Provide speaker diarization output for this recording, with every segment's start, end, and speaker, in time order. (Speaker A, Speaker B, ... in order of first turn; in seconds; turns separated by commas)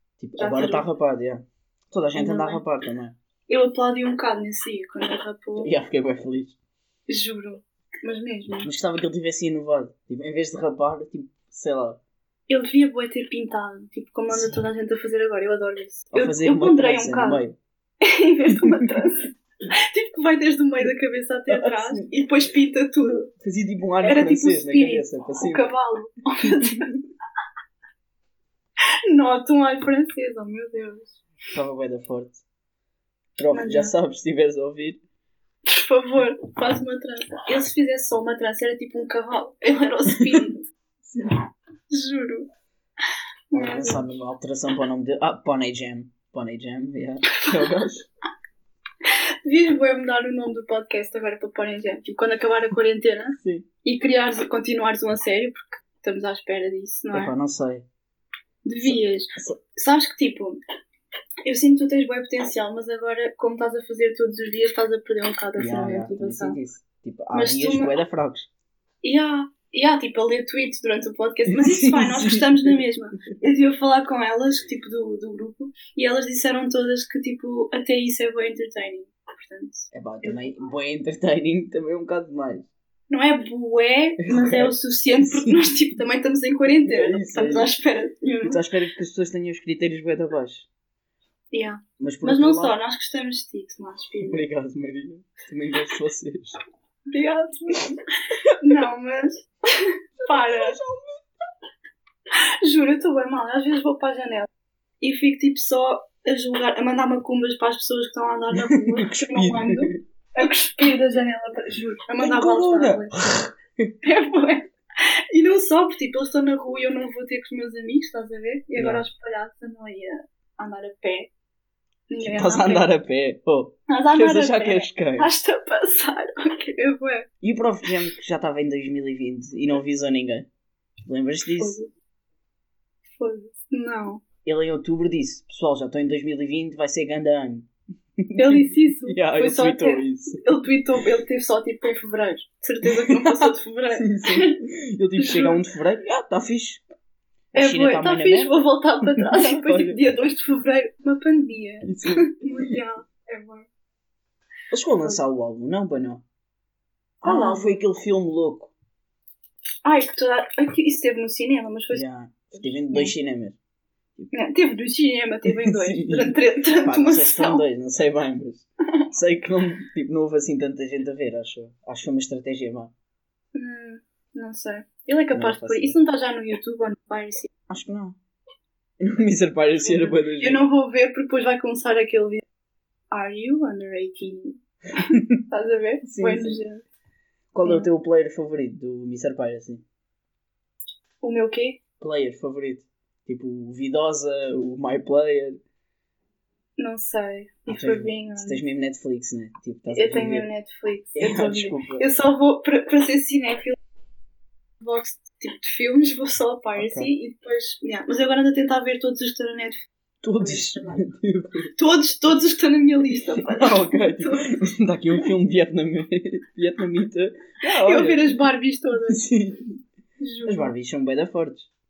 Speaker A: 0.2-3.2, Speaker B: 0.4-0.9, Speaker B: 2.1-2.6, Speaker B: 3.5-5.7, Speaker A: 5.6-6.6, Speaker B: 7.1-8.7, Speaker A: 8.6-12.0, Speaker B: 12.5-17.4, Speaker A: 14.3-14.6, Speaker A: 16.1-17.6, Speaker B: 18.0-23.3, Speaker A: 18.5-19.1, Speaker A: 21.5-22.1, Speaker A: 23.2-25.7, Speaker B: 24.0-26.9, Speaker A: 26.4-27.0, Speaker B: 29.1-31.2, Speaker A: 31.5-32.4, Speaker A: 33.4-35.0, Speaker B: 33.5-33.9, Speaker B: 35.7-40.7, Speaker A: 40.1-40.5, Speaker A: 41.0-41.4, Speaker B: 41.9-42.5, Speaker B: 43.5-44.1, Speaker A: 43.5-48.1, Speaker B: 49.0-57.3, Speaker A: 53.4-53.7, Speaker A: 57.1-57.9, Speaker B: 58.6-60.6, Speaker A: 58.8-59.6, Speaker B: 61.5-66.6, Speaker A: 65.6-68.5, Speaker B: 67.3-67.9, Speaker B: 69.0-80.7, Speaker A: 71.5-72.8, Speaker A: 79.9-82.7, Speaker B: 83.1-88.6, Speaker A: 84.2-85.9, Speaker A: 86.8-87.7, Speaker A: 88.4-90.7, Speaker B: 91.5-94.5, Speaker A: 92.0-92.8, Speaker A: 94.2-96.6, Speaker B: 97.1-98.0, Speaker B: 98.5-100.8, Speaker A: 100.2-101.2, Speaker B: 102.3-104.5, Speaker B: 105.0-113.3, Speaker A: 108.5-110.0, Speaker A: 112.2-113.9, Speaker B: 114.0-121.3, Speaker A: 118.8-119.0, Speaker B: 122.1-122.9, Speaker A: 122.2-125.3, Speaker B: 123.9-127.3, Speaker A: 127.4-130.5, Speaker A: 131.1-131.8, Speaker B: 131.6-131.9, Speaker B: 133.2-134.2, Speaker A: 134.4-137.7, Speaker A: 138.2-140.5, Speaker B: 138.4-144.6, Speaker A: 142.8-146.8, Speaker B: 145.2-145.6, Speaker A: 147.5-150.0, Speaker B: 147.6-153.7, Speaker A: 151.8-152.8, Speaker A: 154.7-156.2, Speaker A: 157.2-158.7, Speaker B: 157.2-157.8, Speaker B: 159.8-162.0, Speaker A: 161.9-163.6, Speaker B: 162.6-163.1, Speaker B: 164.3-167.6, Speaker A: 165.5-172.9, Speaker B: 173.5-177.5, Speaker A: 175.3-176.0, Speaker A: 177.7-178.2, Speaker A: 179.0-180.6, Speaker B: 179.8-182.4, Speaker B: 183.1-186.8, Speaker A: 185.0-185.4, Speaker A: 186.0-186.6, Speaker A: 187.5-189.8, Speaker B: 187.6-187.9, Speaker B: 191.2-191.8, Speaker A: 192.0-195.6, Speaker B: 196.8-198.6, Speaker A: 197.7-200.5, Speaker B: 199.9-203.8, Speaker A: 201.1-202.1, Speaker B: 204.8-209.9, Speaker A: 206.8-207.1, Speaker A: 210.2-211.7, Speaker B: 210.4-211.1, Speaker B: 211.8-214.5, Speaker A: 213.1-218.4, Speaker B: 217.8-219.3, Speaker A: 219.0-219.8, Speaker B: 220.2-220.7, Speaker A: 220.5-221.7